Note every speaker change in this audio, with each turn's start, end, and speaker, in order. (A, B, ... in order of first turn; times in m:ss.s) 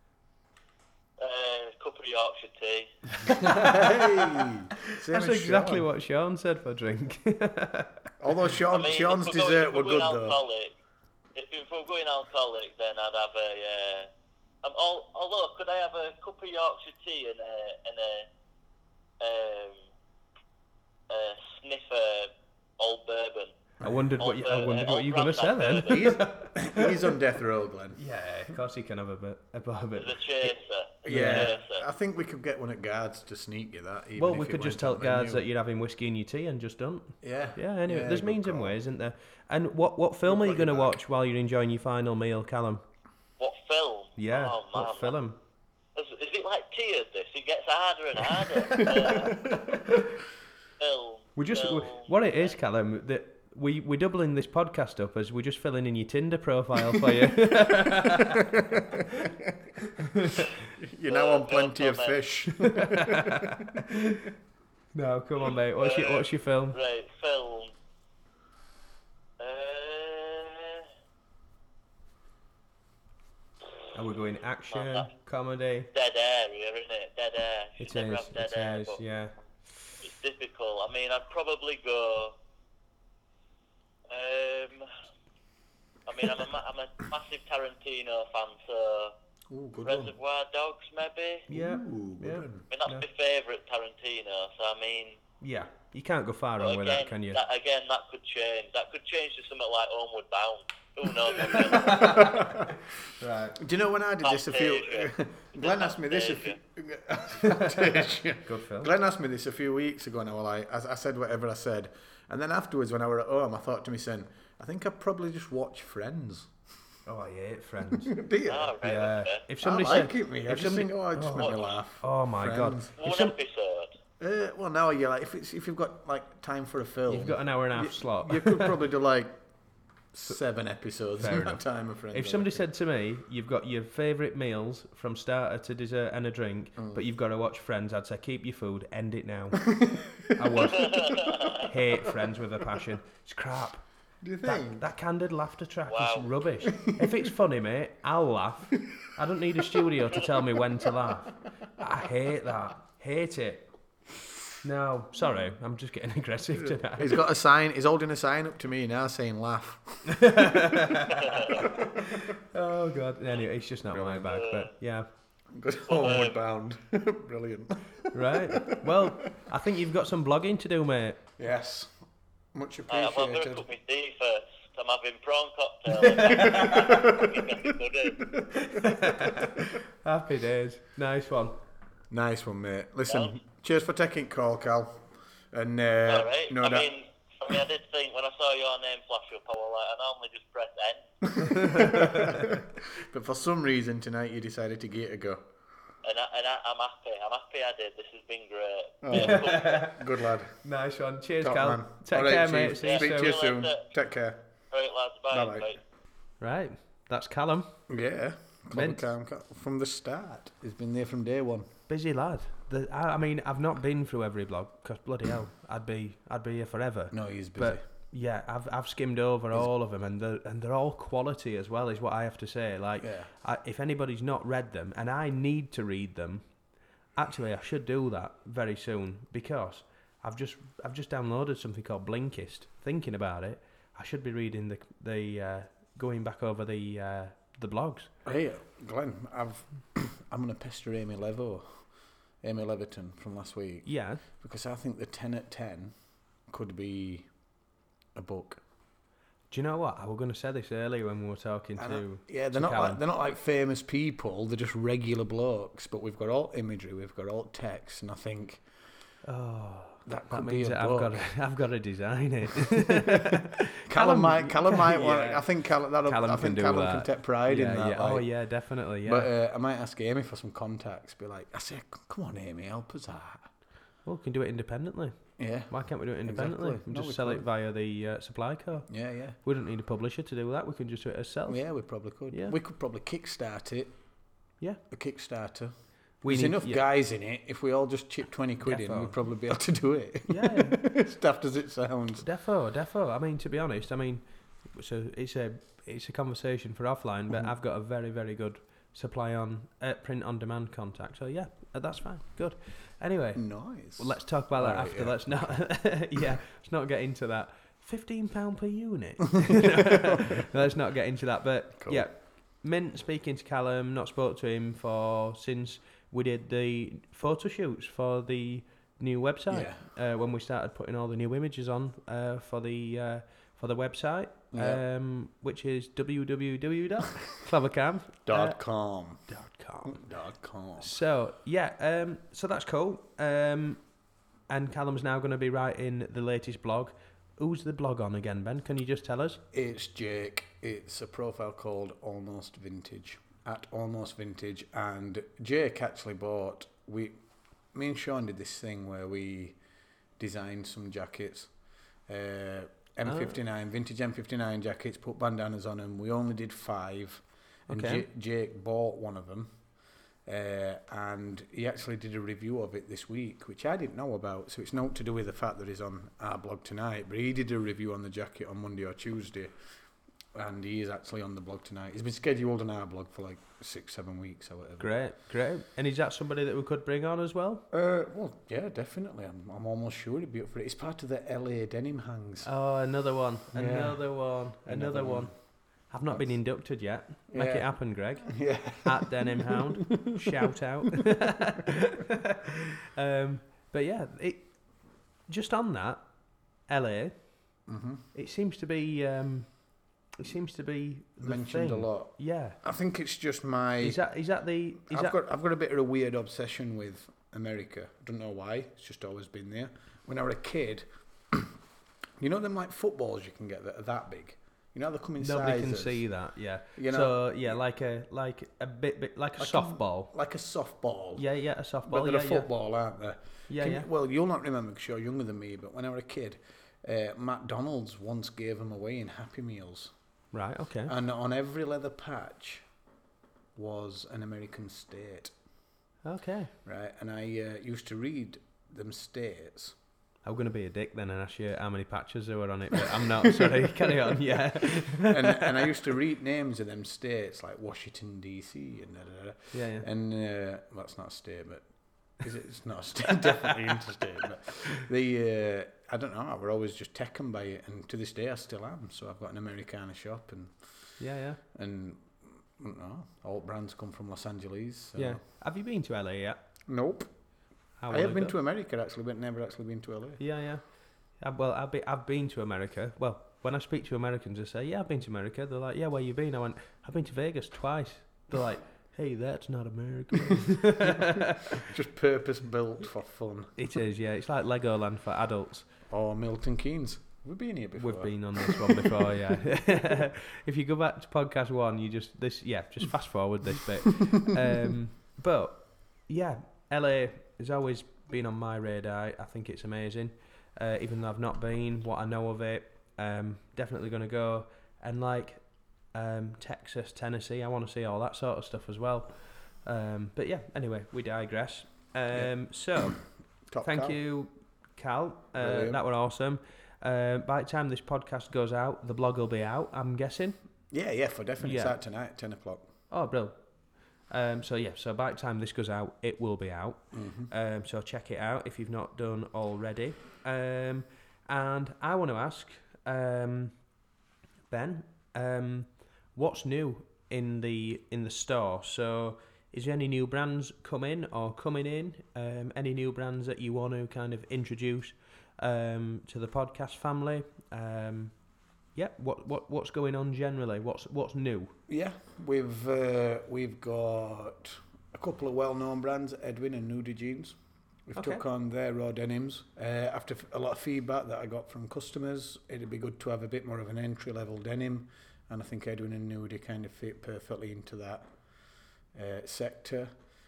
0:01.2-0:03.0 A
0:03.3-0:05.9 B
0:03.4-0:04.4 C
0:05.1-0:08.1 C
0:08.2-0:10.4 B
0:08.7-0:10.7 A
0:11.4-0:14.1 A
0:14.6-0:18.3 A
0:19.2-0:19.8 A
0:21.1-0:23.6 A
0:23.8-0:26.9 C
0:23.8-0:24.1 B
0:24.2-0:26.2 A
0:25.9-0:28.0 B
0:28.0-0:30.5 C
0:30.0-0:31.9 A
0:31.0-0:35.4 B
0:31.1-0:31.5 C
0:34.2-0:42.8 C
0:37.2-0:38.8 B
0:40.3-0:41.0 B
0:43.4-0:45.2 A
0:44.2-0:45.4 C
0:46.0-0:49.5 A
0:48.7-0:49.5 B
0:50.8-0:52.5 A
0:51.4-0:58.5 C
0:58.4-0:59.6 B
0:59.0-0:59.3 C
1:00.0-1:00.5 C
1:00.8-1:03.8 B
1:01.1-1:02.2 A
1:02.6-1:04.3 C
1:04.9-1:06.8 C
1:05.8-1:07.7 A
1:09.4-1:10.9 A
1:13.9-1:15.9 C
1:14.7-1:15.1 A
1:15.9-1:19.0 A
1:17.8-1:19.3 C
1:20.0-1:22.4 A
1:24.1-1:24.9 A
1:26.1-1:29.1 A
1:29.5-1:30.1 B
1:29.8-1:31.5 A
1:31.5-1:32.6 B
1:31.5-1:33.1 C
1:32.7-1:35.2 A
1:35.4-1:37.4 C
1:36.6-1:42.3 A
1:41.4-1:42.7 B
1:41.8-1:43.6 C
1:43.6-1:56.5 B
1:44.2-1:46.6 A
1:47.4-1:48.9 C
1:57.1-1:58.1 C
1:57.9-1:58.8 B
1:58.5-1:59.5 A
1:58.8-2:03.4 C
1:59.6-2:02.9 B
2:01.4-2:01.8 A
2:03.0-2:03.9 A
2:04.2-2:09.4 B
2:07.1-2:08.8 C
2:10.1-2:12.7 B
2:11.2-2:19.7 C
2:16.8-2:17.0 B
2:19.6-2:22.1 B
2:20.3-2:23.8 C
2:20.6-2:21.7 A
2:24.2-2:24.9 B
2:24.4-2:33.7 C
2:25.9-2:26.4 A
2:26.7-2:27.3 B
2:34.6-2:37.2 C
2:36.6-2:40.6 B
2:40.1-2:45.1 C
2:41.2-2:41.6 A
2:41.5-2:42.0 B
2:43.9-2:44.4 B
2:44.3-2:44.7 A
2:45.5-2:49.1 B
2:45.9-2:46.4 A
2:48.1-2:51.2 C
2:51.4-2:52.0 B
2:52.5-2:53.7 B
2:52.9-2:58.3 A
2:56.1-2:59.4 B
2:58.7-3:01.6 C
3:02.1-3:06.9 B
3:03.1-3:03.4 A
3:06.1-3:11.3 A
3:11.4-3:15.5 B
3:11.4-3:12.5 C
3:16.0-3:19.9 A
3:19.0-3:20.6 B
3:19.1-3:20.0 C
3:20.6-3:23.4 C
3:21.4-3:24.5 B
3:22.8-3:23.9 A
3:24.7-3:25.8 A
3:25.3-3:25.7 B
3:26.4-3:27.8 C
3:27.9-3:31.7 B
3:28.7-3:29.0 C
3:31.9-3:46.6 C
3:37.1-3:37.8 B
3:43.0-3:43.3 B
3:47.1-3:58.1 C
3:58.2-4:01.8 B
4:02.4-4:05.9 B
4:03.8-4:04.2 C
4:06.5-4:07.3 B
4:08.1-4:08.6 B
4:09.5-4:13.0 C
4:11.8-4:18.6 B
4:19.2-4:25.5 C
4:20.0-4:21.3 B
4:23.9-4:28.4 B
4:26.0-4:29.3 C
4:29.0-4:33.5 B
4:34.0-4:41.7 C
4:35.4-4:37.5 B
4:38.9-4:39.4 B
4:41.5-4:44.0 B
4:42.3-4:42.6 C
4:44.9-4:45.7 B
4:46.2-4:46.8 C
4:46.2-4:52.3 B
4:48.6-4:49.2 C
4:50.3-4:50.8 C
4:52.2-5:28.6 C
5:03.4-5:06.0 B
5:10.0-5:10.4 B
5:11.8-5:12.1 B
5:19.5-5:19.8 B
5:24.5-5:24.8 B
5:28.3-5:29.3 B
5:29.3-5:30.0 C
5:29.9-5:30.9 B
5:30.8-5:33.9 C
5:34.5-5:39.4 C
5:39.5-5:47.2 B
5:47.7-5:49.6 B
5:50.2-5:51.5 B
5:52.1-5:59.6 B
5:53.0-5:53.4 C
5:57.7-5:58.1 C
6:00.2-6:09.5 B
6:10.3-6:14.9 B
6:14.8-6:17.6 C
6:17.7-6:22.5 B
6:22.4-6:37.3 C
6:23.5-6:25.3 B
6:27.3-6:30.4 B
6:37.7-6:38.1 B
6:38.1-6:42.6 C
6:41.2-6:44.1 B
6:43.8-6:45.2 C
6:44.8-6:51.6 B
6:52.2-6:56.1 B
6:55.2-7:00.1 C
6:56.8-6:57.6 B
6:59.4-7:01.3 B
7:01.2-7:02.5 C
7:01.8-7:09.9 B
7:03.5-7:03.9 C
7:10.3-7:10.9 C
7:10.9-7:12.7 B
7:13.6-7:15.3 B
7:16.0-7:16.5 C
7:16.6-7:19.8 B
7:20.2-7:25.7 C
7:23.3-7:23.6 B
7:25.0-7:40.9 B
7:29.5-7:29.9 C
7:41.0-7:41.4 C
7:41.5-7:45.2 B
7:45.0-7:46.4 C
7:46.7-7:47.1 B
7:47.8-7:48.4 C
7:47.9-7:50.2 B
7:50.2-8:01.7 C
8:00.3-8:03.6 B
8:03.6-8:05.7 C
8:05.9-8:08.9 B
8:07.8-8:33.0 C
8:32.9-8:34.0 B
8:33.6-8:40.4 C
8:35.4-8:35.8 B
8:40.7-8:42.7 B
8:41.4-8:41.8 C
8:42.9-8:43.5 C
8:44.1-8:53.7 C
8:46.9-8:47.3 B
8:54.5-9:11.6 C
9:11.7-9:28.1 B
9:18.0-9:18.2 C
9:28.9-9:30.0 B